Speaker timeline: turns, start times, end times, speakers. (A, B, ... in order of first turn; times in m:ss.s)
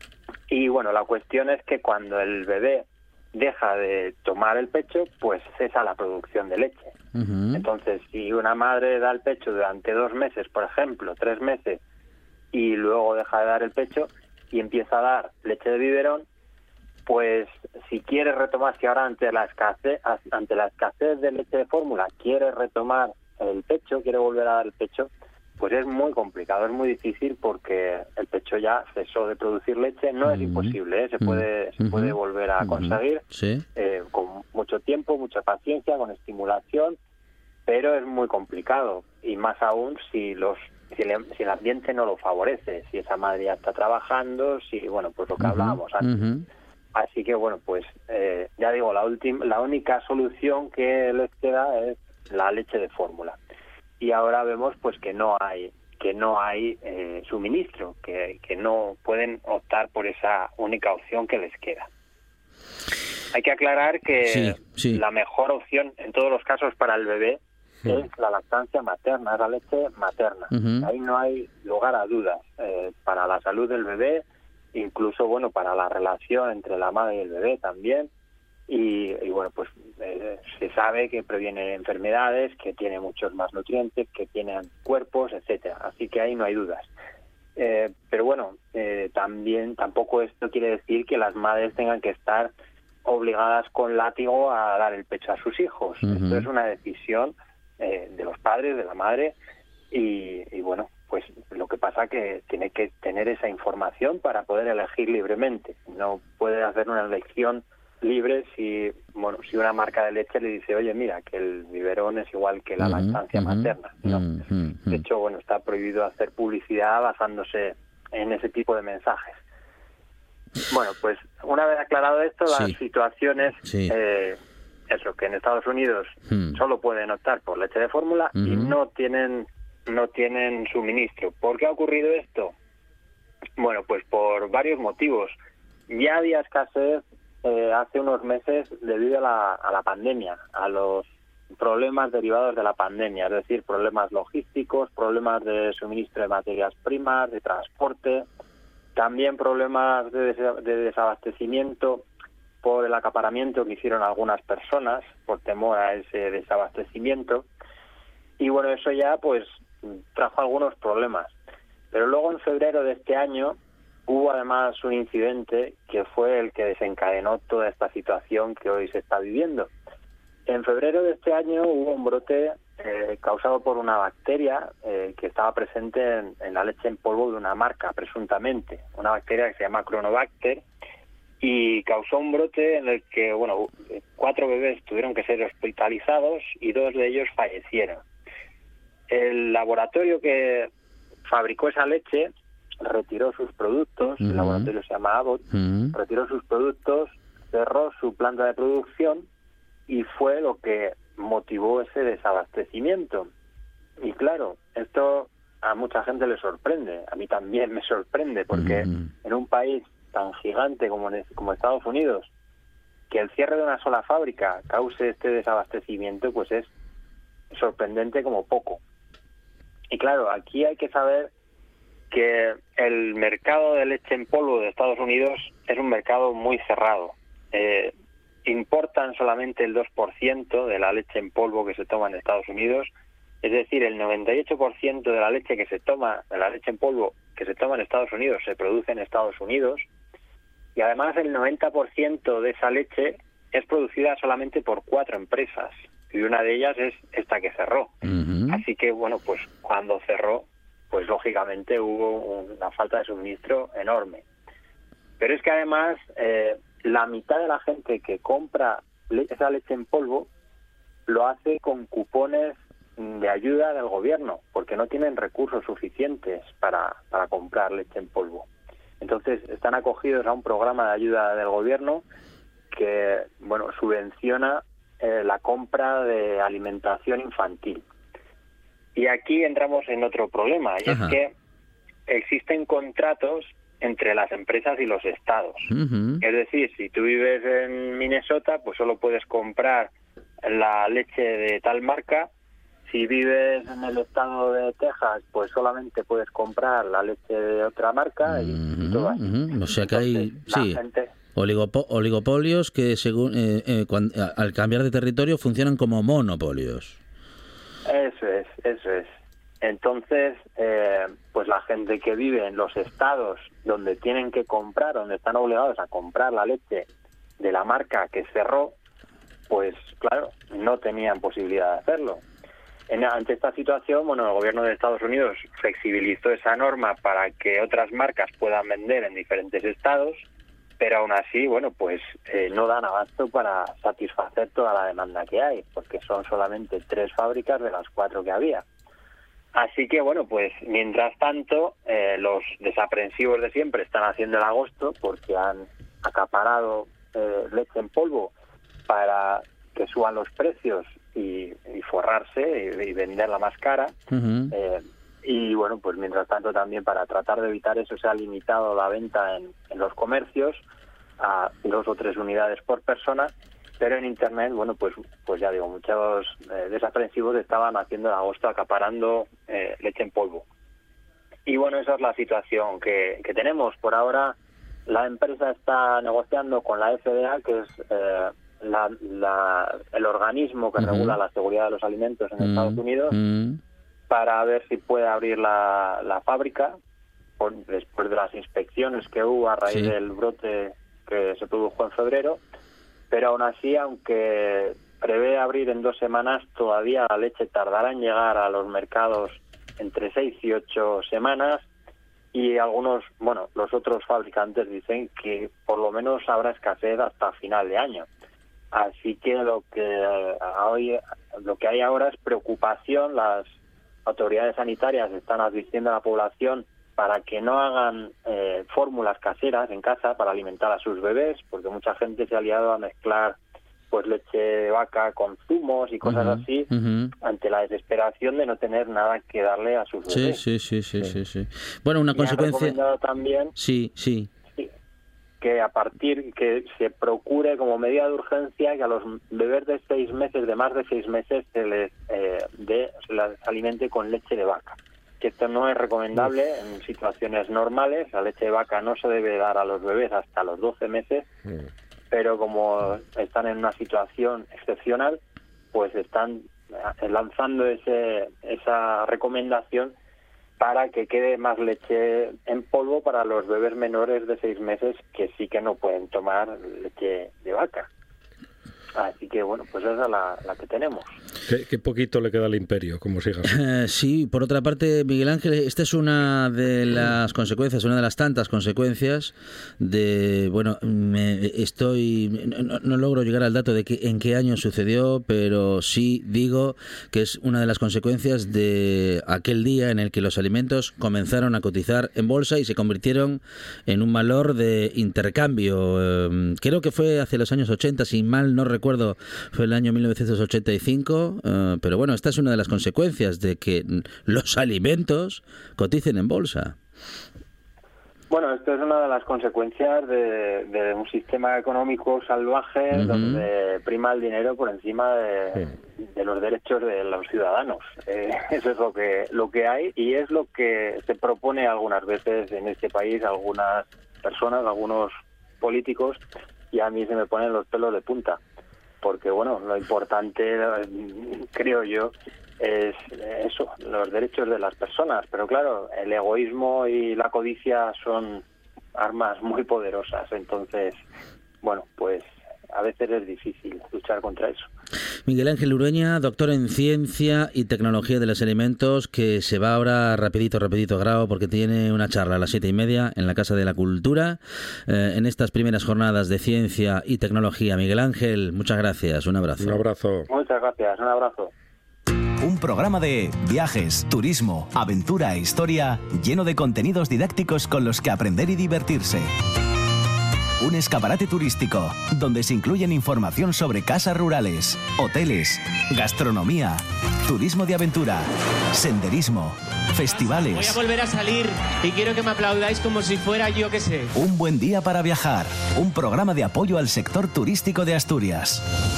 0:00.5-0:06.9 A
0:07.2-0:07.6 B
0:07.5-0:11.8 A
0:12.5-0:16.2 A
0:17.1-0:33.2 A
0:30.2-0:33.6 B
0:33.8-0:37.0 A
0:37.7-0:46.1 A
0:45.4-0:46.4 B
0:47.0-0:53.4 A
0:54.0-1:01.9 A
1:03.3-1:18.1 A
1:04.3-1:05.0 B
1:10.5-1:10.9 B
1:18.7-1:26.9 A
1:27.6-1:32.5 A
1:33.0-1:39.4 A
1:36.0-1:36.5 B
1:39.9-1:54.4 A
1:52.8-1:55.0 B
1:54.9-1:59.4 A
2:00.7-2:04.4 A
2:02.5-2:02.8 B
2:03.6-2:04.0 B
2:04.9-2:12.5 A
2:06.3-2:06.6 B
2:08.4-2:08.7 B
2:13.6-2:15.4 A
2:15.9-2:28.3 A
2:29.0-2:32.1 A
2:32.6-2:37.5 A
2:38.4-2:39.5 A
2:40.1-2:41.3 A
2:41.9-2:49.7 A
2:50.5-3:00.6 A
3:01.4-3:08.0 A
3:09.1-3:10.7 A
3:11.3-3:12.3 A
3:12.8-3:19.3 A
3:14.2-3:14.7 B
3:15.5-3:16.0 B
3:19.9-3:23.3 A
3:24.0-3:32.3 A
3:28.5-3:29.1 B
3:33.1-3:36.7 A
3:37.5-3:38.8 A
3:39.9-3:41.3 A
3:42.1-3:47.9 A
3:48.5-3:52.9 A
3:53.4-3:59.8 A
4:00.8-4:07.9 A
4:08.0-4:08.6 B
4:08.5-4:14.2 A
4:15.2-4:20.3 A
4:21.1-4:28.5 A
4:29.0-4:32.0 A
4:32.7-4:37.8 A
4:39.0-4:41.3 A
4:40.9-4:41.2 B
4:42.1-4:45.7 A
4:45.7-4:46.2 B
4:46.2-4:49.9 A
4:50.4-4:52.3 A
4:52.9-5:01.1 A
4:58.3-5:00.8 B
5:01.4-5:06.9 B
5:07.9-5:09.1 A
5:09.6-5:16.9 A
5:17.4-5:18.8 A
5:19.5-5:22.2 A
5:22.9-5:30.2 A
5:30.8-5:38.6 A
5:39.5-5:48.3 A
5:48.9-5:54.0 A
5:54.1-5:54.5 B
5:54.5-6:00.6 A
6:01.2-6:10.4 A
6:11.5-6:14.4 A
6:14.9-6:23.2 A
6:20.8-6:21.2 B
6:22.4-6:23.6 B
6:24.1-6:26.8 A
6:27.4-6:32.4 A
6:29.7-6:29.9 B
6:33.1-6:41.6 A
6:42.3-6:48.1 A
6:48.7-6:53.5 A
6:54.1-7:03.4 A
7:03.9-7:06.7 A
7:06.0-7:07.1 B
7:07.2-7:10.4 A
7:10.1-7:12.8 B
7:12.1-7:13.5 A
7:13.6-7:14.3 B
7:15.4-7:31.3 A
7:32.1-7:35.2 A
7:35.7-7:39.9 A
7:40.6-7:47.9 A
7:49.0-7:51.1 A
7:51.5-7:53.6 C
7:53.5-8:26.8 B
8:28.3-8:46.2 A
8:32.9-8:33.4 B
8:46.7-8:48.4 A
8:49.0-8:58.4 A
8:59.0-9:01.0 A
9:01.6-9:04.7 A
9:05.3-9:19.8 B
9:19.6-9:20.3 C
9:20.3-9:21.5 A
9:22.4-9:29.3 D
9:30.6-9:40.8 D
9:40.1-9:44.1 E
9:44.2-9:48.6 D